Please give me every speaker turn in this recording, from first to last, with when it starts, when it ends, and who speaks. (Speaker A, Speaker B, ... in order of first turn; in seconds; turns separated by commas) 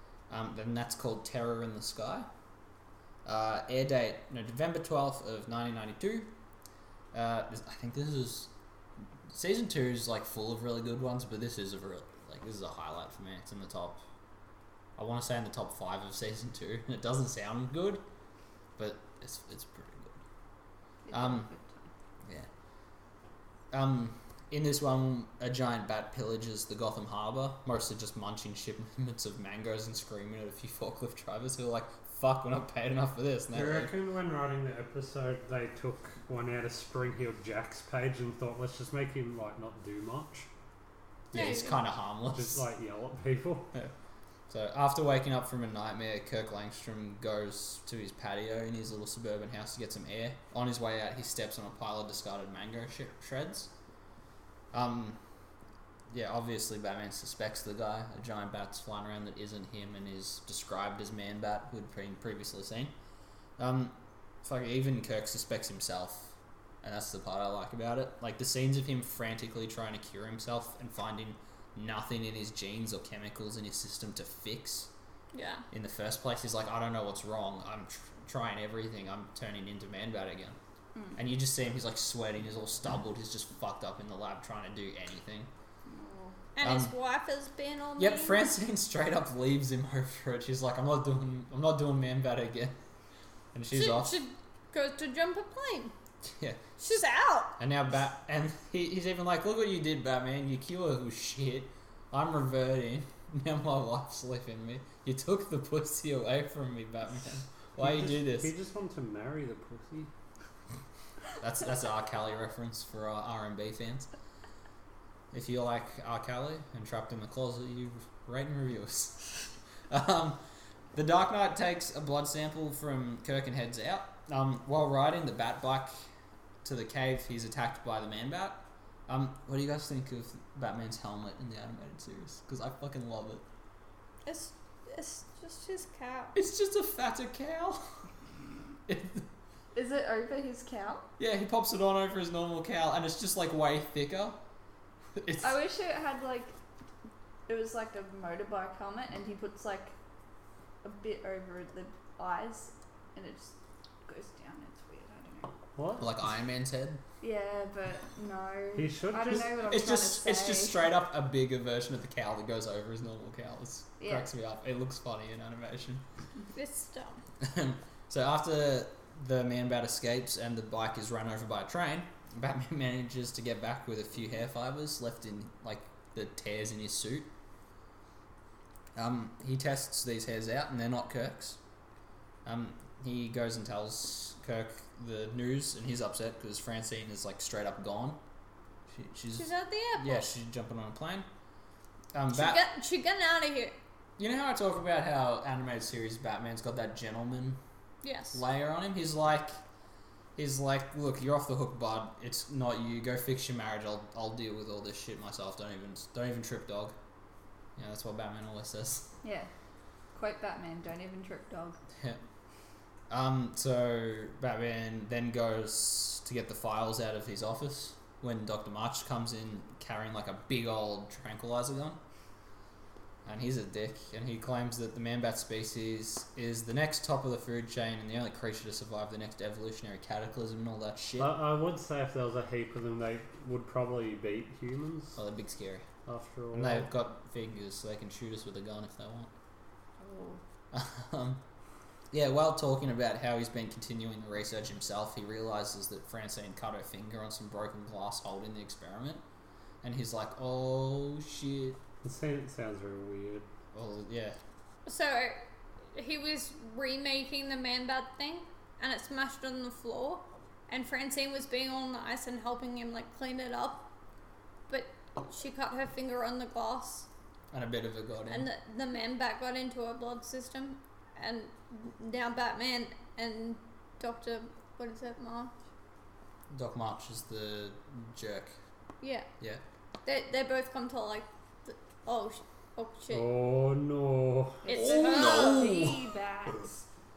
Speaker A: 0.3-2.3, Speaker A: 3.2-6.3, Speaker A: 7.1-8.5, Speaker A: 9.3-14.0, Speaker A: 15.0-18.0, Speaker A: 18.8-20.2, Speaker B: 21.1-21.9, Speaker A: 21.1-21.5, Speaker A: 23.7-33.9, Speaker C: 33.5-40.5, Speaker A: 41.3-42.6, Speaker D: 41.3-41.8, Speaker C: 42.3-43.7, Speaker A: 44.5-53.7, Speaker A: 54.7-55.2, Speaker A: 56.1-62.9, Speaker A: 63.6-66.3, Speaker A: 66.8-74.9, Speaker D: 75.3-75.6, Speaker A: 75.7-80.6, Speaker B: 81.0-81.2, Speaker A: 81.2-85.5, Speaker B: 85.9-86.4, Speaker D: 86.6-88.5, Speaker A: 86.6-86.9, Speaker A: 88.0-92.8, Speaker A: 93.5-94.2, Speaker D: 93.7-95.9, Speaker A: 96.4-96.6, Speaker D: 96.8-97.5, Speaker A: 97.6-108.5, Speaker C: 107.8-110.1, Speaker A: 111.4-114.1, Speaker A: 115.3-120.4, Speaker A: 120.9-125.9, Speaker A: 126.6-133.4, Speaker D: 134.3-136.3, Speaker A: 136.3-137.8, Speaker A: 138.9-139.2, Speaker B: 139.8-141.1, Speaker A: 141.2-144.4, Speaker A: 145.2-145.6, Speaker B: 145.4-146.5, Speaker B: 147.5-149.9, Speaker B: 150.8-153.5, Speaker B: 154.1-155.5, Speaker C: 155.8-156.1, Speaker A: 156.0-157.0, Speaker B: 157.2-160.9, Speaker C: 158.8-159.5, Speaker A: 159.7-166.0, Speaker B: 164.0-164.3, Speaker D: 166.5-167.2, Speaker A: 167.4-177.3, Speaker A: 179.0-181.6, Speaker A: 182.4-188.2, Speaker A: 188.9-191.3, Speaker D: 189.3-190.3, Speaker A: 192.1-192.6, Speaker D: 192.3-193.8, Speaker A: 194.2-197.6, Speaker D: 198.0-198.4, Speaker A: 198.3-199.6, Speaker A: 200.4-206.9, Speaker A: 207.8-209.1, Speaker B: 209.2-209.5, Speaker B: 210.1-211.8, Speaker A: 213.1-222.0, Speaker A: 223.2-231.3, Speaker C: 231.2-235.2, Speaker A: 235.2-235.8, Speaker C: 236.1-236.9, Speaker A: 236.5-239.3, Speaker B: 240.0-240.4, Speaker A: 240.7-241.4, Speaker A: 242.1-249.2, Speaker A: 249.8-251.8, Speaker C: 252.0-253.5, Speaker A: 253.7-254.4, Speaker D: 254.9-255.4, Speaker D: 255.9-263.9, Speaker D: 264.7-267.1, Speaker A: 267.5-268.5, Speaker D: 268.3-275.5, Speaker A: 276.5-278.6, Speaker D: 279.0-279.3, Speaker D: 280.1-283.3, Speaker C: 283.1-284.6, Speaker B: 284.6-286.8, Speaker D: 284.6-285.9, Speaker A: 284.8-286.0